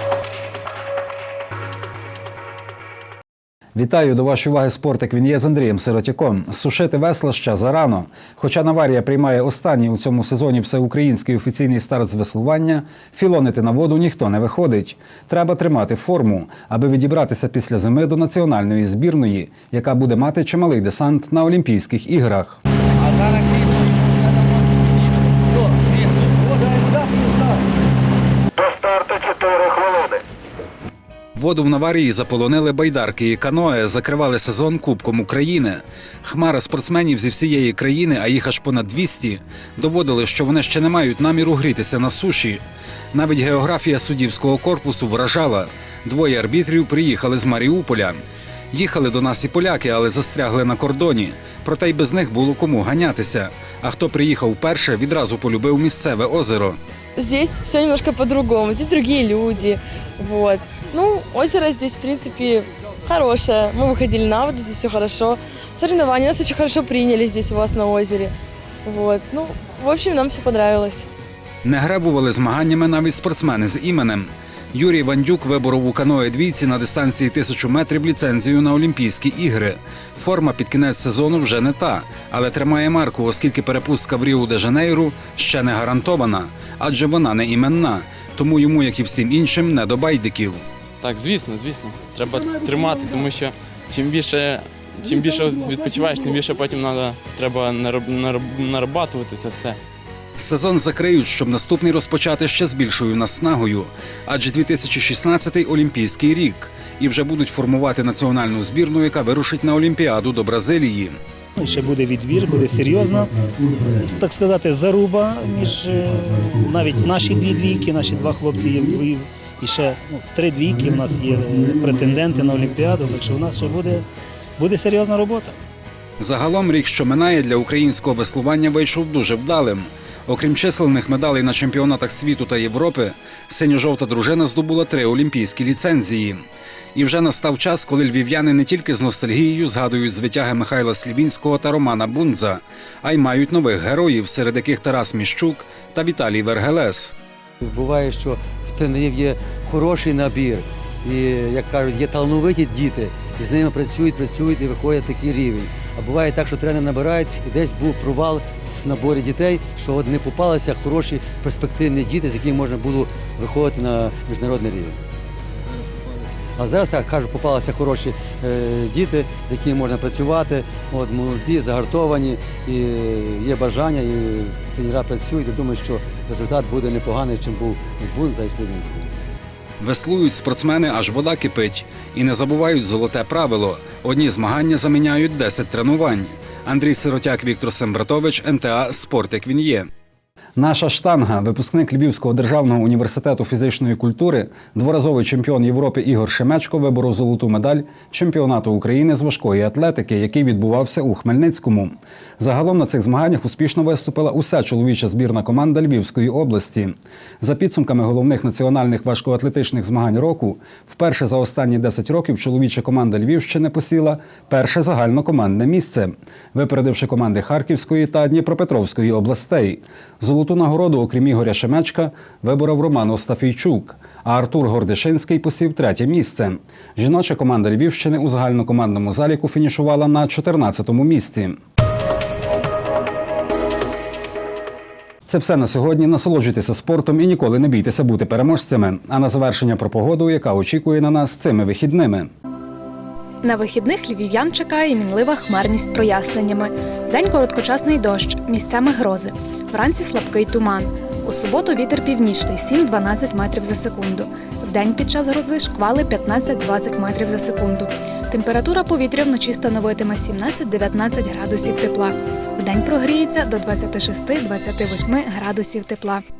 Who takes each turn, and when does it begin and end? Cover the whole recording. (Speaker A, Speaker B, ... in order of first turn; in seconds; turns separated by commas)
Speaker A: 3.7-22.6, Speaker A: 31.4-48.2, Speaker A: 48.7-56.8, Speaker B: 57.2-59.7, Speaker B: 60.4-62.6, Speaker B: 63.2-65.3, Speaker B: 65.9-68.3, Speaker B: 68.9-71.0, Speaker A: 71.6-90.6, Speaker C: 91.0-99.8, Speaker A: 100.4-111.2, Speaker D: 111.6-124.0, Speaker D: 124.6-125.5, Speaker A: 126.2-136.4, Speaker A: 136.9-147.1, Speaker E: 147.6-165.0, Speaker E: 166.6-179.2, Speaker A: 179.8-189.9, Speaker A: 190.6-231.6, Speaker A: 235.2-242.3, Speaker F: 243.4-266.2